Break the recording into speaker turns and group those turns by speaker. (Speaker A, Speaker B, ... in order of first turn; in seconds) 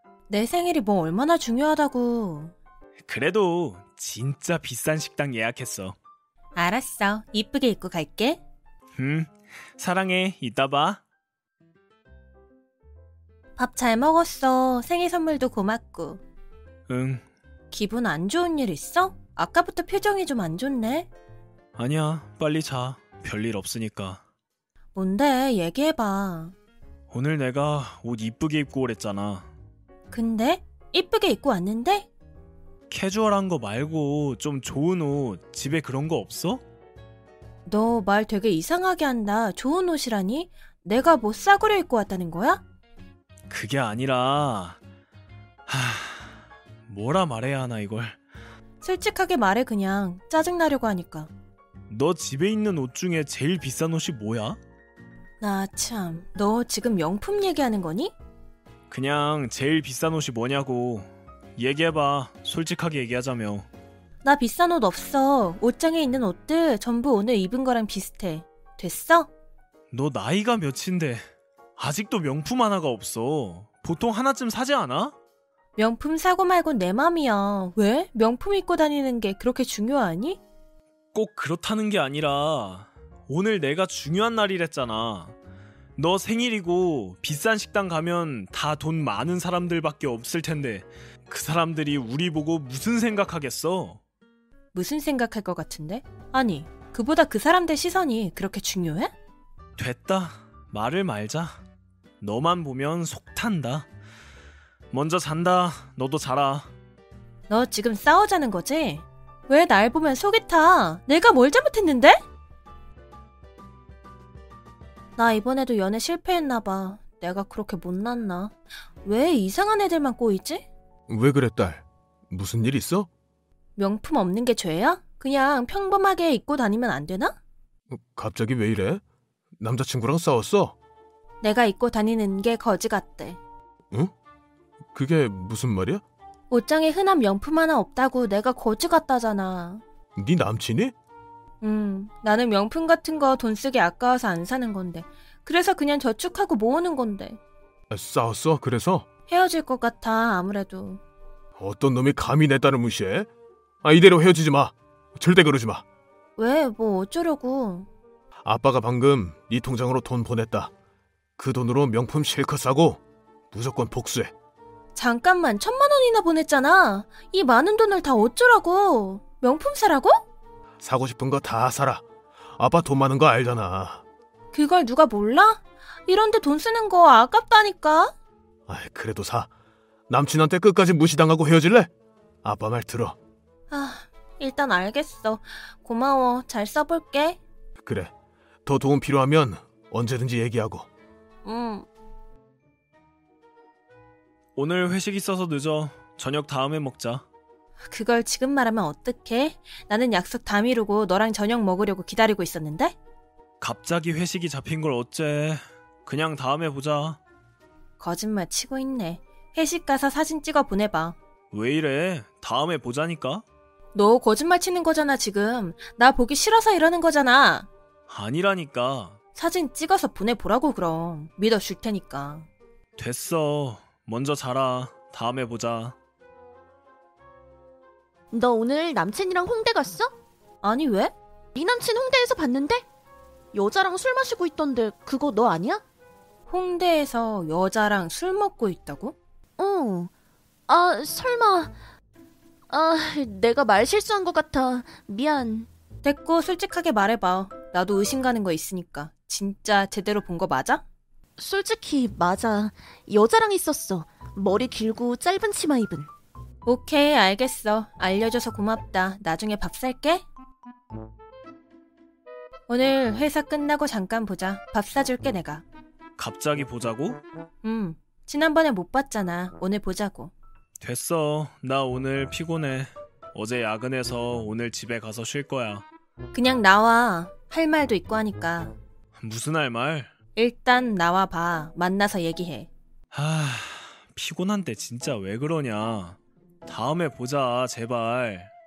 Speaker A: 0.3-2.5, 6.5-8.4, 13.6-16.2, 17.7-21.1, 24.9-26.5, 30.1-32.1, 37.6-42.6, 48.8-51.3, 55.4-58.1, 64.2-69.3, 75.8-80.4, 94.7-99.1, 107.5-112.2, 115.2-120.7, 123.8-127.4, 131.4-133.4, 136.5-139.8, 141.6-147.4, 149.3-151.0, 156.4-157.9, 164.9-170.2, 174.5-178.1, 183.7-187.4, 191.4-191.9, 197.9-202.9, 208.0-211.2, 213.9-217.7, 219.3-222.5, 230.6-231.1, 236.5-239.2, 246.0-250.8, 256.6-260.2, 262.7-265.6, 267.6-270.3, 276.3-278.8, 280.3-282.7
Speaker B: 3.1-6.0, 9.0-11.0, 16.9-17.2, 21.8-24.2, 27.1-29.5, 32.9-36.6, 43.5-44.8, 45.7-48.1, 51.9-54.6, 58.9-63.7, 69.9-71.2, 71.8-75.1, 81.1-85.3, 86.0-94.0, 99.8-101.6, 102.2-103.9, 104.9-106.7, 194.6-197.2, 203.6-207.2, 211.5-213.4, 218.1-219.2, 223.0-225.9, 266.2-267.2, 270.8-275.8, 279.2-280.1, 283.1-288.5
Speaker C: 121.1-123.1, 127.9-129.0, 129.6-130.7, 134.9-136.0, 140.2-140.9, 147.9-149.1, 151.6-153.3, 153.8-155.8, 158.4-160.7, 161.4-163.0, 163.5-164.3, 170.8-172.0, 172.6-174.0, 178.7-179.5, 180.1-181.9, 182.4-183.2, 187.8-188.1, 188.7-190.8
Speaker D: 228.3-230.1, 231.5-232.8, 233.5-235.8, 239.6-240.1, 240.7-241.7, 242.7-245.7, 251.4-256.1